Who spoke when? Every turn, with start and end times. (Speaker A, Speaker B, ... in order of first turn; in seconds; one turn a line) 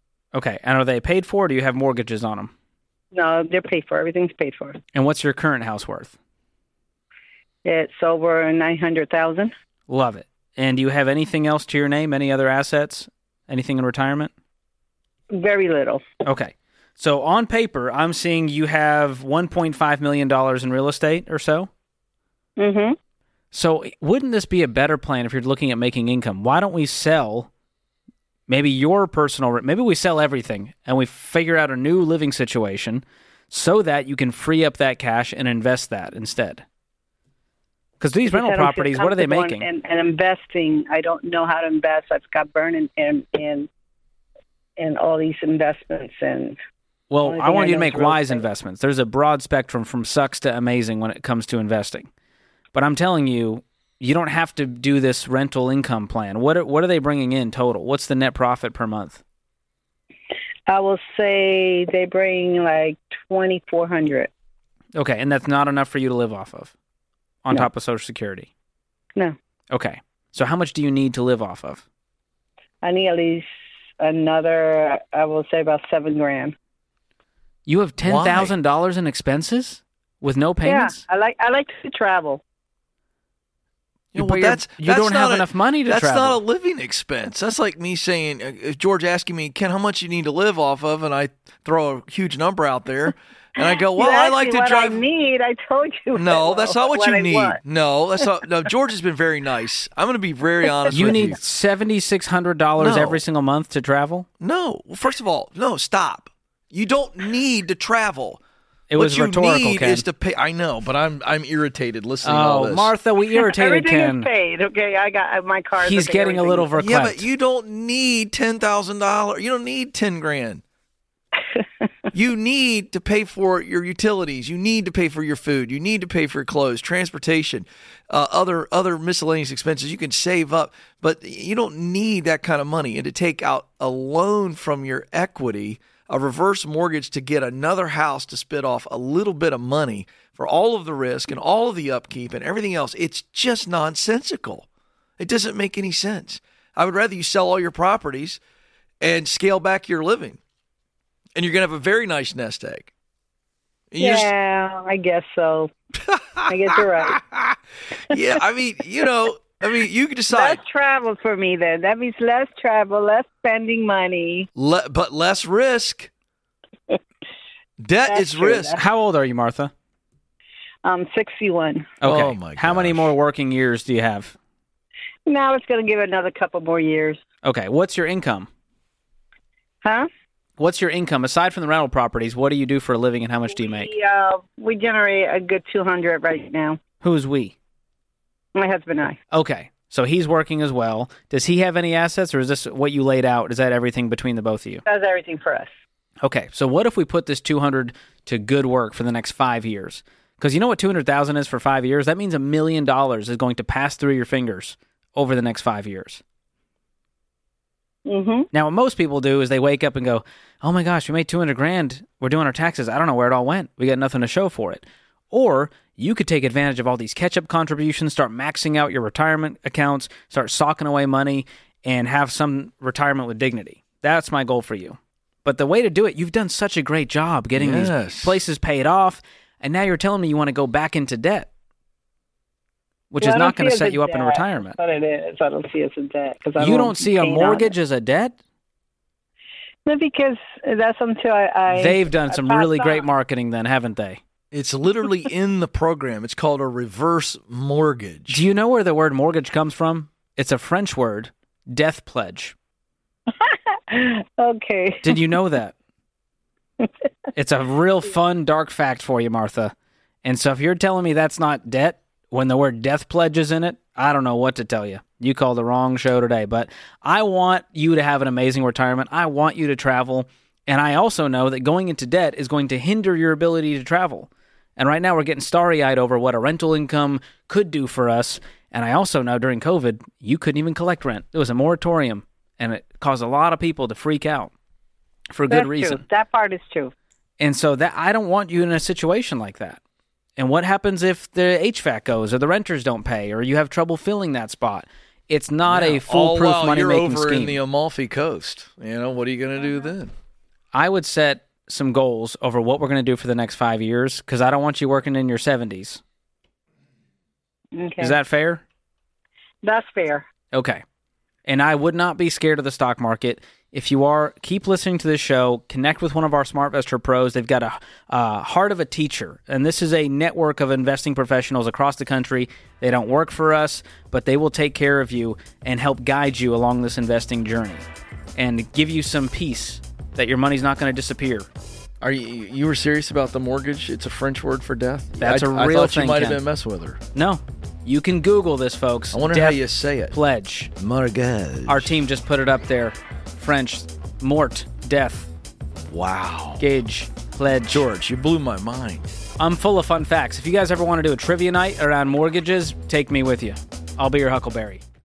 Speaker A: 0.3-2.5
Speaker B: 3.1-4.8
Speaker A: 4.9-6.1
Speaker B: 7.6-9.5
Speaker A: 9.9-14.3
Speaker B: 15.3-16.0
Speaker A: 16.2-21.7
Speaker B: 22.6-22.9
Speaker A: 23.5-27.5
Speaker A: 28.5-36.6
Speaker A: 38.0-39.7
Speaker B: 38.3-43.7
Speaker B: 44.8-46.6
Speaker A: 47.1-52.1
Speaker B: 47.2-48.4
Speaker A: 52.7-59.2
Speaker B: 60.7-64.3
Speaker A: 65.0-66.7
Speaker A: 67.5-68.5
Speaker A: 69.7-71.8
Speaker B: 72.8-73.5
Speaker B: 74.0-76.5
Speaker A: 77.7-81.0
Speaker C: 78.0-78.5
Speaker B: 80.6-82.4
Speaker C: 84.1-95.0
Speaker A: 84.2-86.4
Speaker B: 93.6-97.6
Speaker C: 96.1-101.4
Speaker A: 100.9-104.2
Speaker C: 102.8-103.2
Speaker C: 104.4-108.4
Speaker A: 108.9-110.1
Speaker C: 109.0-112.9
Speaker A: 112.2-114.3
Speaker B: 113.4-116.8
Speaker A: 115.8-117.3
Speaker C: 116.8-120.6
Speaker C: 122.1-144.7
Speaker C: 145.2-148.4
Speaker C: 149.0-150.4
Speaker C: 151.4-152.9
Speaker C: 153.9-154.3
Speaker B: 154.0-155.7
Speaker C: 156.1-156.5
Speaker B: 156.5-157.2
Speaker C: 158.1-160.6
Speaker B: 160.3-164.5
Speaker C: 164.6-166.1
Speaker C: 167.8-168.8
Speaker B: 168.1-168.8
Speaker A: 168.7-169.7
Speaker B: 170.8-171.9
Speaker A: 172.0-174.3
Speaker C: 172.0-173.1
Speaker B: 175.3-177.2
Speaker A: 177.4-178.5
Speaker A: 180.6-183.9
Speaker B: 183.6-186.8
Speaker A: 187.0-187.6
Speaker B: 188.6-189.2
Speaker A: 189.3-194.8
Speaker B: 194.8-195.7
Speaker A: 196.2-206.2
Speaker B: 208.1-208.5
Speaker A: 208.5-231.5
Speaker C: 227.6-228.4
Speaker A: 233.1-234.8
Speaker B: 233.2-237.7
Speaker A: 236.6-238.3
Speaker B: 239.8-243.1
Speaker A: 241.7-244.2
Speaker C: 244.5-248.4
Speaker A: 248.3-252.6
Speaker B: 253.4-255.3
Speaker A: 255.0-255.8
Speaker A: 257.4-259.7
Speaker A: 260.2-284.5
Speaker A: 285.3-286.0
Speaker B: 285.5-286.9
Speaker A: 287.4-289.8
Speaker A: 290.4-297.6
Speaker C: 295.7-300.1
Speaker A: 300.7-306.0
Speaker B: 307.8-308.2
Speaker A: 308.0-308.6
Speaker B: 309.6-310.3
Speaker A: 310.5-310.8
Speaker A: 311.5-327.9
Speaker A: 328.4-331.5
Speaker C: 332.0-337.0
Speaker A: 335.2-336.4
Speaker A: 337.1-340.7
Speaker C: 339.1-340.1
Speaker C: 340.8-342.0
Speaker A: 341.7-345.3
Speaker C: 345.9-346.7
Speaker A: 346.6-347.9
Speaker C: 347.7-349.1
Speaker A: 349.4-354.8